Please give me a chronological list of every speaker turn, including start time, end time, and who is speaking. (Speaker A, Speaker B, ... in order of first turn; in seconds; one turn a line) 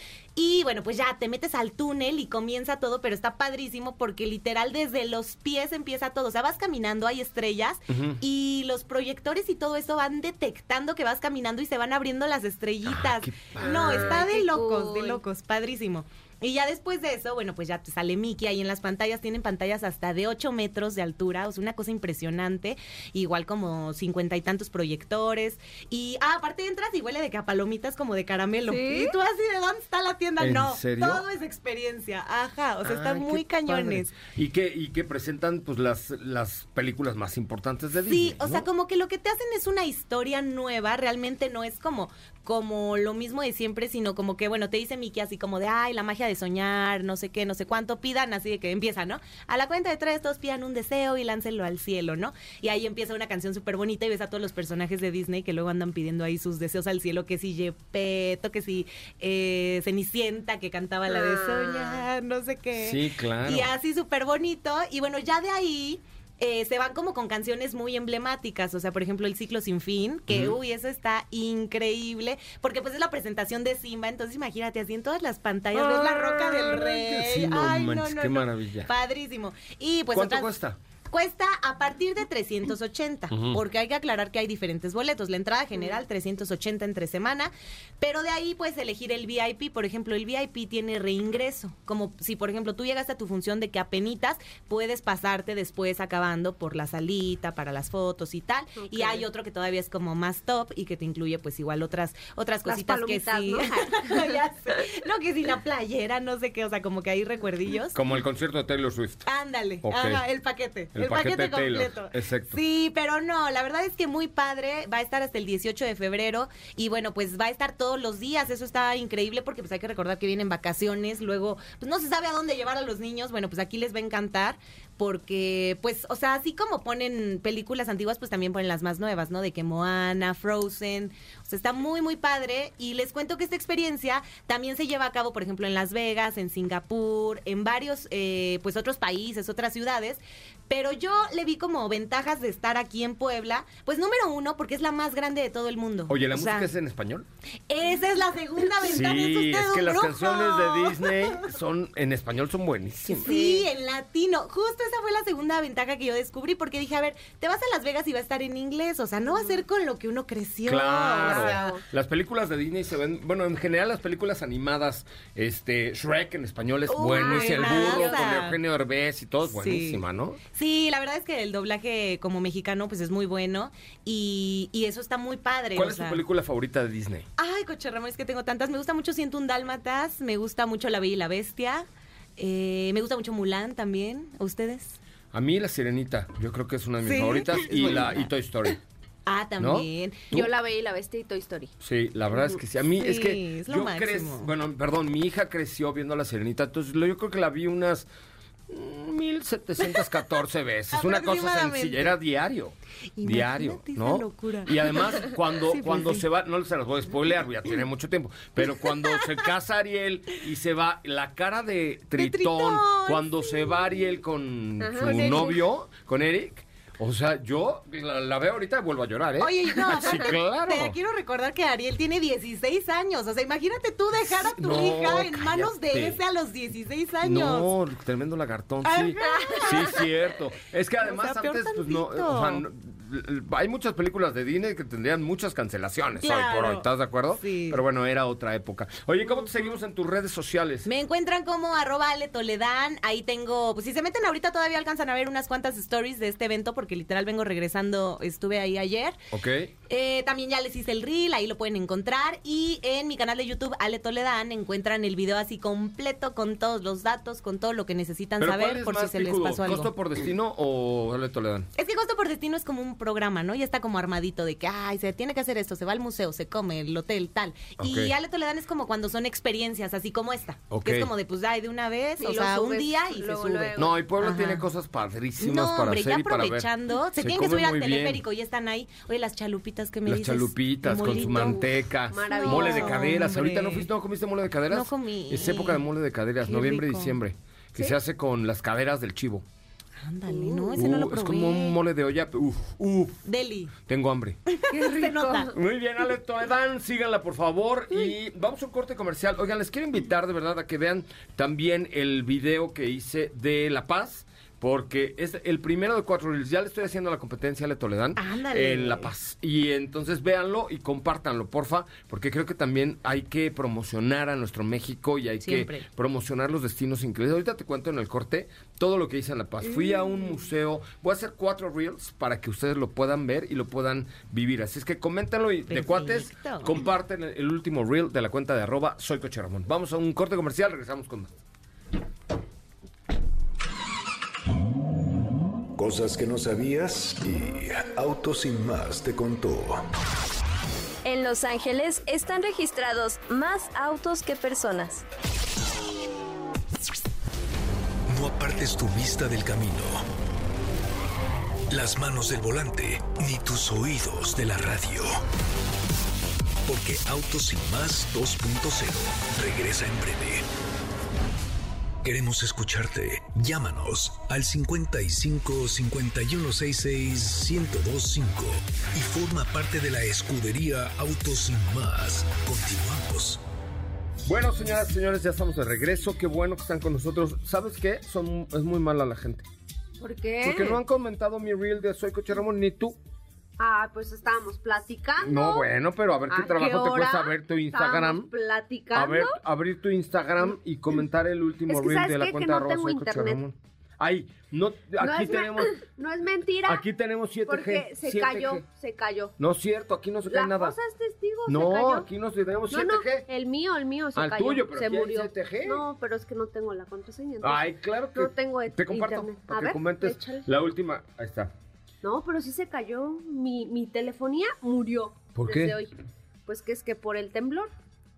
Speaker A: 0.4-34.1
Speaker B: 7.9-8.2
Speaker B: 12.8-14.3
Speaker C: 13.6-15.2
Speaker C: 28.7-29.2
Speaker B: 30.4-31.2
Speaker B: 32.8-38.7
Speaker A: 38.1-80.5
Speaker C: 61.1-62.0
Speaker B: 62.8-63.7
Speaker B: 70.3-70.6
Speaker B: 75.7-78.9
Speaker B: 80.1-80.8
Speaker A: 81.1-108.0
Speaker B: 83.3-83.6
Speaker C: 98.8-99.3
Speaker C: 102.6-104.4
Speaker B: 107.9-109.2
Speaker A: 109.3-146.7
Speaker B: 109.8-110.2
Speaker B: 111.0-112.6
Speaker B: 146.1-147.3
Speaker A: 147.7-151.5
Speaker B: 148.8-153.6
Speaker A: 153.0-161.8
Speaker C: 159.3-159.6
Speaker B: 160.7-170.4
Speaker C: 161.2-161.8
Speaker A: 166.9-168.6
Speaker C: 167.1-168.1
Speaker A: 169.4-176.2
Speaker B: 175.8-177.3
Speaker A: 177.4-181.9
Speaker A: 182.4-185.0
Speaker B: 185.3-188.8
Speaker A: 187.0-188.3
Speaker A: 189.3-190.3
Speaker B: 189.6-190.5
Speaker C: 190.3-191.7
Speaker B: 191.8-198.1
Speaker A: 193.0-194.5
Speaker B: 198.7-221.0
Speaker A: 200.9-202.2
Speaker A: 203.2-206.2
Speaker A: 212.2-213.9
Speaker C: 214.8-215.5
Speaker A: 215.0-215.6
Speaker A: 219.4-227.7
Speaker B: 224.2-226.2
Speaker B: 227.2-240.9
Speaker A: 228.8-230.1
Speaker A: 231.0-232.6
Speaker A: 236.2-237.8
Speaker A: 240.8-249.2
Speaker B: 249.3-249.7
Speaker A: 249.9-259.9
Speaker B: 258.4-261.7
Speaker A: 261.8-274.6
Speaker B: 267.8-268.1
Speaker B: 270.7-271.1
Speaker C: 272.2-274.0
Speaker B: 273.8-278.2
Speaker A: 275.4-281.7
Speaker B: 280.1-289.4
Speaker C: 281.3-283.1
Speaker A: 282.2-283.9
Speaker A: 284.7-285.9
Speaker A: 286.4-287.2
Speaker A: 290.0-291.8
Speaker C: 290.3-290.7
Speaker B: 290.7-293.2
Speaker A: 293.2-293.7
Speaker B: 293.9-294.4
Speaker A: 294.5-295.5
Speaker C: 294.7-295.6
Speaker B: 295.5-331.3
Speaker A: 308.2-309.1
Speaker A: 315.4-315.9
Speaker A: 325.7-326.9
Speaker D: 335.8-339.8
Speaker E: 341.0-345.0
Speaker D: 348.1-350.1
Speaker D: 351.7-355.2
Speaker D: 356.6-360.5
Speaker D: 362.0-373.4
Speaker B: 374.3-379.4
Speaker C: 380.0-380.8
Speaker B: 380.4-383.0
Speaker C: 383.6-385.7
Speaker B: 385.2-388.3
Speaker C: 386.3-389.4
Speaker B: 388.9-395.8
Speaker C: 391.7-393.4
Speaker C: 395.0-396.8
Speaker B: 396.7-398.6
Speaker C: 397.5-399.3
Speaker B: 399.4-400.8
Speaker C: 400.3-402.1
Speaker B: 401.5-403.3
Speaker C: 402.7-410.5
Speaker B: 404.2-405.8
Speaker B: 407.4-411.5
Speaker C: 412.0-415.9
Speaker B: 415.4-415.8
Speaker C: 416.5-417.7